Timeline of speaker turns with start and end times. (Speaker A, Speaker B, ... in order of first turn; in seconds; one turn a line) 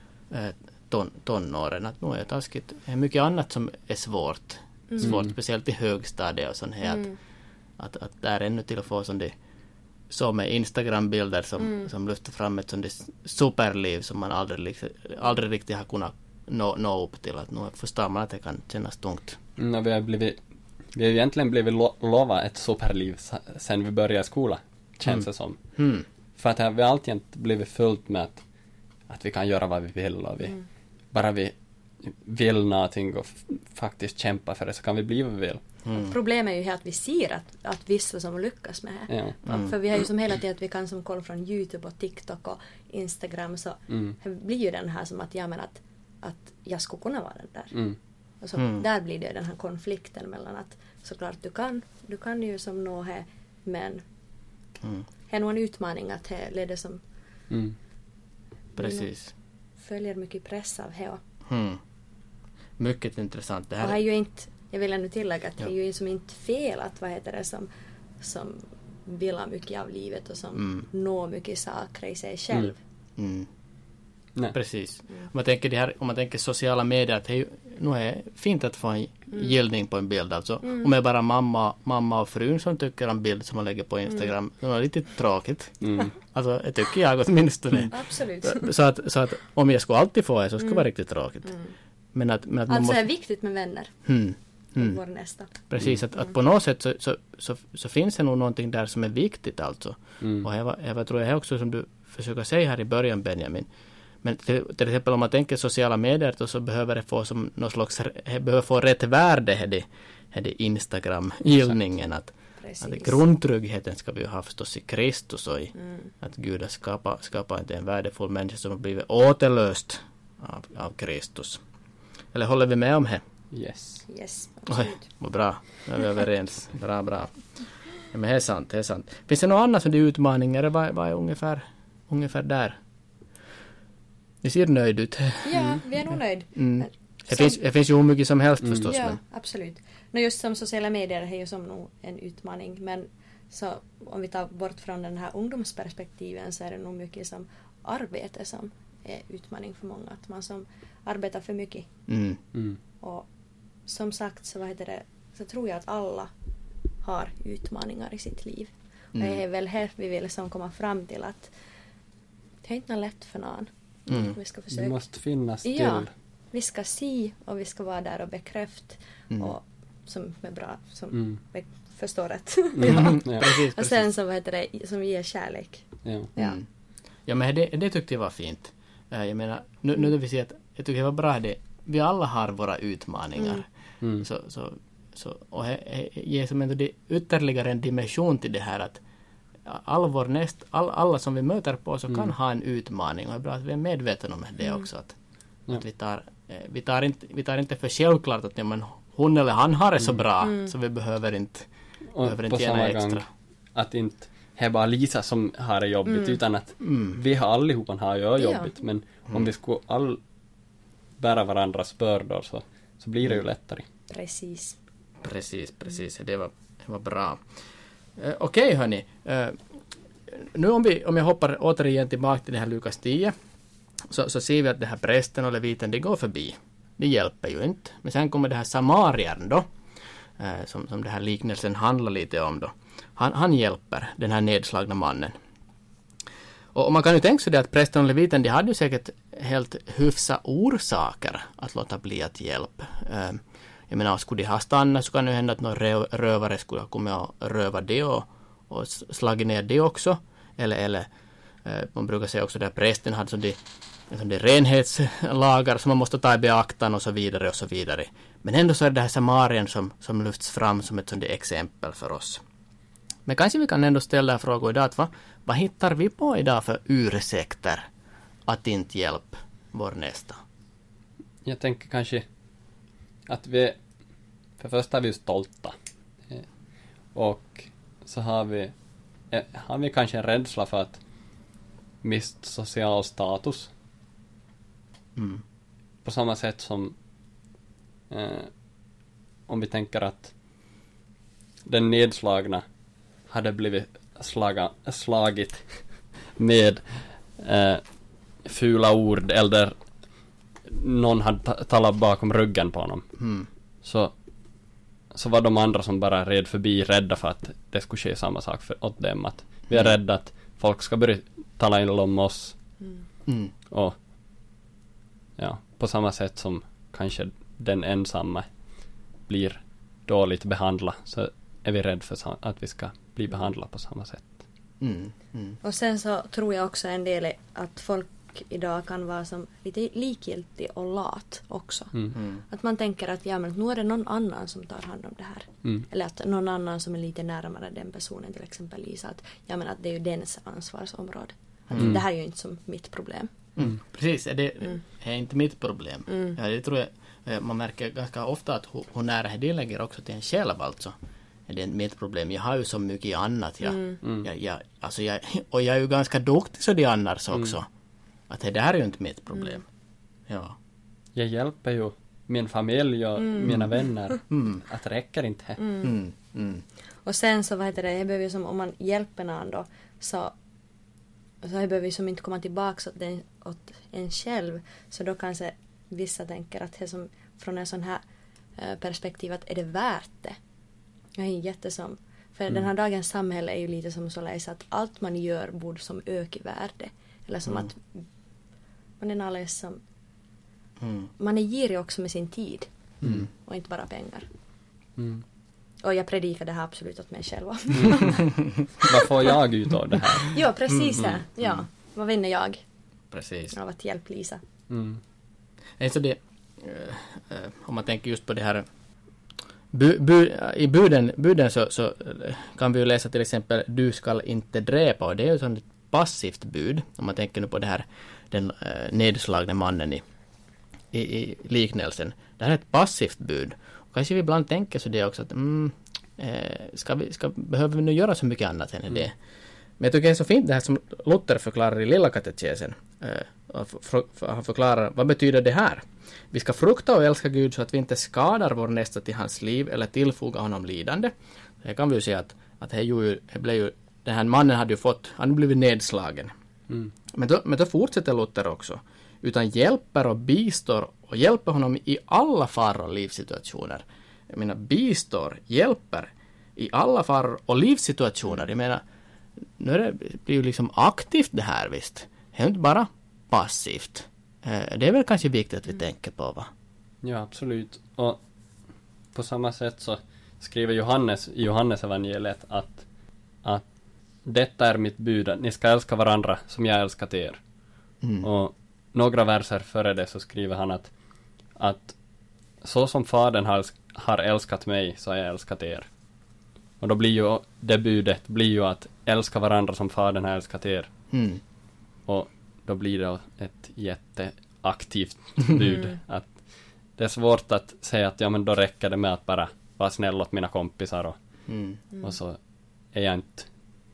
Speaker A: 0.3-7.1
Speaker B: 4.9-5.2
Speaker C: 5.0-5.3
Speaker B: 6.8-7.2
Speaker A: 7.8-9.3
Speaker A: 10.1-19.4
Speaker C: 19.6-20.4
Speaker C: 20.9-25.6
Speaker A: 25.8-26.0
Speaker C: 26.4-28.4
Speaker C: 29.1-30.6
Speaker C: 31.1-35.6
Speaker A: 35.8-36.1
Speaker B: 35.9-47.8
Speaker C: 39.1-39.4
Speaker A: 39.4-39.7
Speaker C: 43.9-44.2
Speaker B: 48.4-54.0
Speaker A: 48.5-48.8
Speaker A: 54.8-55.0
Speaker B: 55.3-57.0
Speaker C: 57.5-57.8
Speaker B: 58.8-59.0
Speaker A: 58.8-59.3
Speaker B: 59.8-61.2
Speaker A: 61.5-61.8
Speaker A: 62.8-64.0
Speaker B: 63.8-67.7
Speaker B: 68.2-72.8
Speaker A: 70.5-70.8
Speaker A: 73.2-73.5
Speaker A: 74.5-91.5
Speaker C: 85.8-86.1
Speaker B: 87.9-88.7
Speaker B: 91.5-91.7
Speaker A: 92.1-93.0
Speaker B: 92.7-93.9
Speaker A: 94.0-95.0
Speaker B: 94.7-95.5
Speaker A: 95.7-103.7
Speaker C: 100.2-100.5
Speaker A: 104.2-121.6
Speaker B: 112.6-113.2
Speaker B: 115.8-116.1
Speaker A: 122.3-123.2
Speaker C: 123.5-124.0
Speaker B: 124.0-125.1
Speaker A: 124.7-127.3
Speaker A: 128.0-132.8
Speaker A: 134.4-135.6
Speaker B: 135.4-137.6
Speaker A: 136.6-139.2
Speaker B: 138.9-151.9
Speaker A: 152.1-152.4
Speaker B: 153.0-153.3
Speaker B: 153.9-156.3
Speaker B: 157.0-161.5
Speaker A: 159.1-159.4
Speaker B: 162.6-165.0
Speaker A: 164.1-164.3
Speaker C: 164.7-166.1
Speaker B: 165.6-176.6
Speaker C: 172.7-173.5
Speaker A: 172.8-174.1
Speaker A: 176.3-176.7
Speaker A: 177.3-183.7
Speaker A: 184.2-189.0
Speaker A: 189.6-195.2
Speaker A: 195.7-201.7
Speaker B: 200.4-200.7
Speaker C: 202.1-203.2
Speaker A: 202.2-203.2
Speaker C: 203.7-210.2
Speaker B: 206.1-206.3
Speaker A: 206.8-207.2
Speaker B: 208.4-208.7
Speaker C: 211.2-213.8
Speaker B: 214.1-214.8
Speaker A: 215.2-217.4
Speaker A: 218.2-219.6
Speaker A: 220.3-223.3
Speaker A: 224.1-229.7
Speaker A: 230.4-235.3
Speaker A: 236.7-251.1
Speaker A: 251.6-262.4
Speaker A: 263.2-267.9
Speaker A: 268.4-270.4
Speaker C: 271.4-272.2
Speaker C: 273.3-273.8
Speaker C: 274.6-275.7
Speaker C: 277.1-278.7
Speaker C: 279.3-281.0
Speaker C: 282.0-283.7
Speaker A: 285.1-285.4
Speaker C: 286.0-286.9
Speaker C: 288.1-288.5
Speaker C: 289.5-290.3
Speaker C: 291.6-292.6
Speaker C: 293.3-295.8
Speaker C: 296.3-297.8
Speaker C: 298.4-299.7
Speaker C: 300.7-303.1
Speaker A: 303.2-303.5
Speaker C: 303.8-304.1
Speaker C: 305.1-312.6
Speaker A: 313.2-313.5
Speaker C: 313.7-313.9
Speaker C: 315.4-318.4
Speaker C: 319.3-324.4
Speaker A: 324.8-325.6
Speaker B: 325.6-331.9
Speaker A: 332.1-332.4
Speaker B: 332.5-343.3
Speaker A: 341.7-342.0
Speaker A: 343.6-350.9
Speaker B: 346.1-346.4
Speaker A: 351.5-357.7
Speaker B: 353.6-354.0
Speaker C: 354.0-354.3
Speaker A: 358.3-359.6
Speaker A: 360.3-360.6
Speaker C: 361.1-365.6
Speaker B: 363.2-363.6
Speaker A: 364.3-364.6
Speaker B: 365.6-365.9
Speaker A: 365.8-366.6
Speaker B: 367.0-370.3
Speaker B: 371.4-378.0
Speaker B: 378.6-380.4
Speaker B: 381.1-388.0
Speaker B: 389.0-389.8
Speaker A: 390.8-391.1
Speaker B: 391.2-392.7
Speaker A: 393.0-393.3
Speaker B: 393.4-394.3
Speaker C: 395.0-395.2
Speaker B: 395.8-398.2
Speaker C: 397.7-398.1
Speaker C: 398.8-400.4
Speaker B: 400.2-402.6
Speaker A: 400.7-401.6
Speaker A: 403.1-403.5
Speaker B: 403.5-404.4
Speaker C: 404.7-405.0
Speaker A: 405.8-408.6
Speaker A: 409.7-420.0
Speaker A: 420.9-429.1
Speaker A: 429.8-446.3
Speaker A: 447.1-458.8
Speaker A: 459.6-466.5
Speaker C: 467.0-468.2
Speaker C: 469.1-472.8
Speaker C: 474.2-477.4
Speaker A: 478.0-478.3
Speaker C: 478.2-480.9
Speaker C: 481.6-481.9
Speaker C: 482.6-485.9
Speaker C: 486.8-490.9
Speaker A: 491.1-491.4
Speaker C: 492.1-496.4
Speaker C: 497.0-501.2
Speaker A: 501.5-501.8
Speaker C: 502.0-502.4
Speaker C: 502.9-503.5